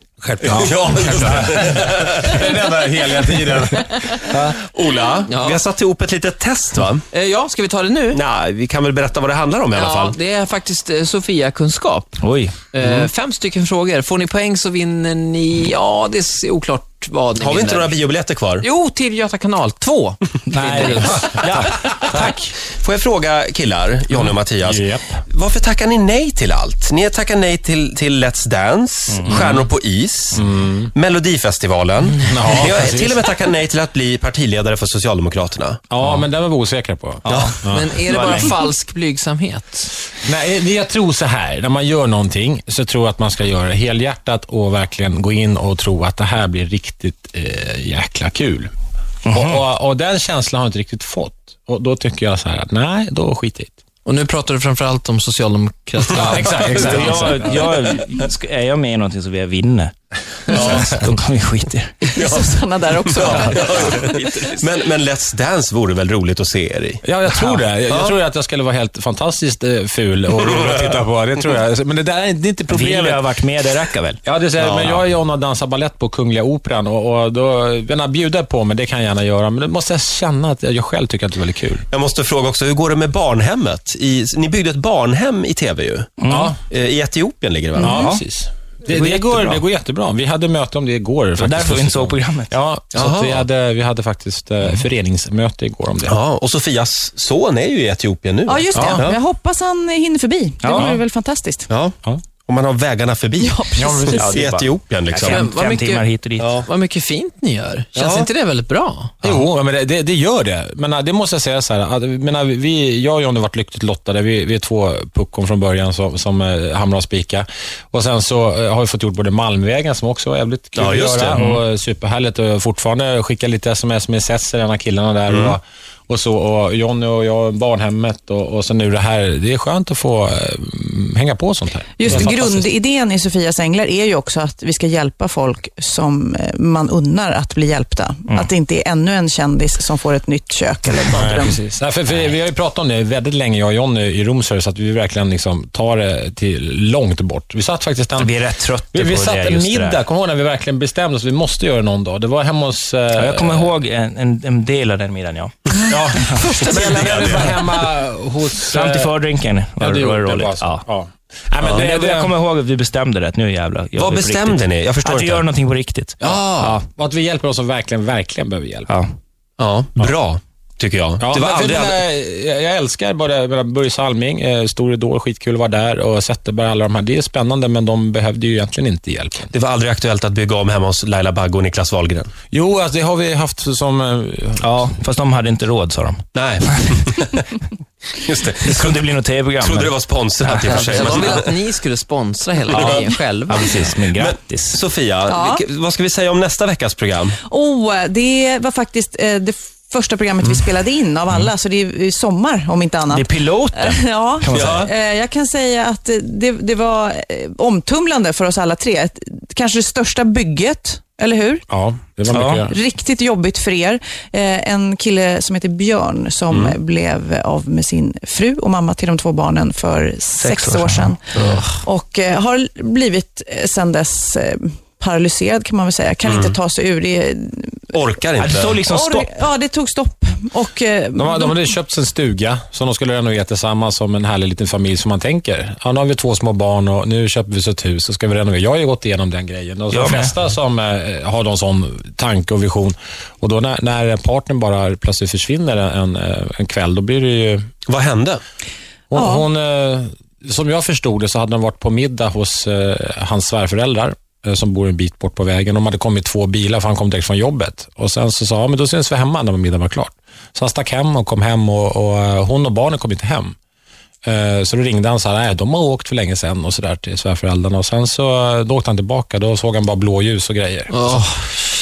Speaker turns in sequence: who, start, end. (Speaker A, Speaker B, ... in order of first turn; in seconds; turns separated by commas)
Speaker A: 0.2-4.2, Speaker B: 0.5-2.4, Speaker C: 4.3-4.6, Speaker B: 4.5-7.1, Speaker D: 7.1-8.2, Speaker B: 8.1-10.2, Speaker D: 9.8-12.2, Speaker C: 12.2-12.7, Speaker D: 12.7-18.0, Speaker B: 12.8-13.1, Speaker B: 17.4-18.7, Speaker D: 18.6-21.2, Speaker C: 20.5-21.7, Speaker A: 21.0-22.5, Speaker B: 22.1-35.8, Speaker A: 24.1-25.2, Speaker C: 29.1-29.7, Speaker A: 30.3-30.9, Speaker A: 32.3-33.3, Speaker A: 35.9-38.0, Speaker C: 37.2-38.5, Speaker B: 37.3-37.5, Speaker D: 37.6-39.9, Speaker A: 40.2-48.7, Speaker C: 49.3-49.6, Speaker A: 49.3-53.7, Speaker D: 54.0-57.0, Speaker A: 56.1-57.8, Speaker C: 56.9-59.9, Speaker C: 60.5-62.0, Speaker B: 60.5-61.0, Speaker E: 62.0-64.6, Speaker B: 62.2-62.5, Speaker B: 63.1-67.0, Speaker A: 63.3-63.6, Speaker A: 67.0-73.2, Speaker B: 67.9-68.2, Speaker B: 70.5-71.0, Speaker C: 72.7-74.2, Speaker A: 74.2-81.8, Speaker B: 74.6-75.0, Speaker B: 81.9-86.1, Speaker C: 86.2-86.5, Speaker A: 86.3-86.6, Speaker B: 86.7-88.0, Speaker E: 87.8-88.1, Speaker A: 87.8-96.2, Speaker C: 88.9-89.6, Speaker C: 91.4-92.5, Speaker B: 93.0-93.4, Speaker B: 96.1-99.2, Speaker E: 98.5-101.7, Speaker A: 98.8-99.1, Speaker C: 100.6-101.0, Speaker B: 101.7-103.6, Speaker E: 103.4-104.4, Speaker A: 103.8-104.4, Speaker B: 104.1-105.5, Speaker C: 104.2-106.6, Speaker D: 105.3-106.1, Speaker B: 106.4-106.7, Speaker D: 106.7-109.1, Speaker B: 108.0-108.3, Speaker A: 109.2-132.7, Speaker B: 120.8-121.5, Speaker C: 121.3-121.6, Speaker B: 125.3-125.6, Speaker E: 132.0-141.6, Speaker A: 141.1-148.4, Speaker C: 148.2-150.0, Speaker A: 148.9-153.7, Speaker C: 153.2-155.5, Speaker A: 155.9-159.2, Speaker C: 156.2-156.7, Speaker E: 156.4-156.8, Speaker B: 156.6-157.6, Speaker C: 158.7-160.8, Speaker A: 159.8-162.3, Speaker C: 161.8-166.7, Speaker B: 164.0-165.5, Speaker A: 166.2-168.9, Speaker B: 166.2-166.8, Speaker B: 169.6-172.0, Speaker A: 171.2-179.5, Speaker B: 179.5-182.3, Speaker A: 182.5-184.8, Speaker C: 184.6-186.9, Speaker B: 186.3-187.5, Speaker B: 188.1-191.5, Speaker C: 188.6-191.1, Speaker D: 190.7-193.8, Speaker B: 192.7-193.0, Speaker C: 193.5-194.8, Speaker B: 193.6-197.4, Speaker E: 195.3-195.6, Speaker E: 197.4-211.7, Speaker C: 203.1-204.9, Speaker B: 204.5-204.9, Speaker A: 211.7-212.8, Speaker C: 212.3-212.6, Speaker E: 212.7-221.2, Speaker B: 216.5-216.8, Speaker C: 220.4-221.1, Speaker E: 221.7-227.8, Speaker B: 226.2-226.6, Speaker B: 227.9-228.8, Speaker C: 228.4-229.3, Speaker E: 228.8-231.7, Speaker A: 231.2-247.7, Speaker C: 239.9-240.3, Speaker B: 247.9-248.4, Speaker A: 249.1-263.6, Speaker E: 249.1-249.4, Speaker A: 264.2-271.3, Speaker D: 270.9-271.6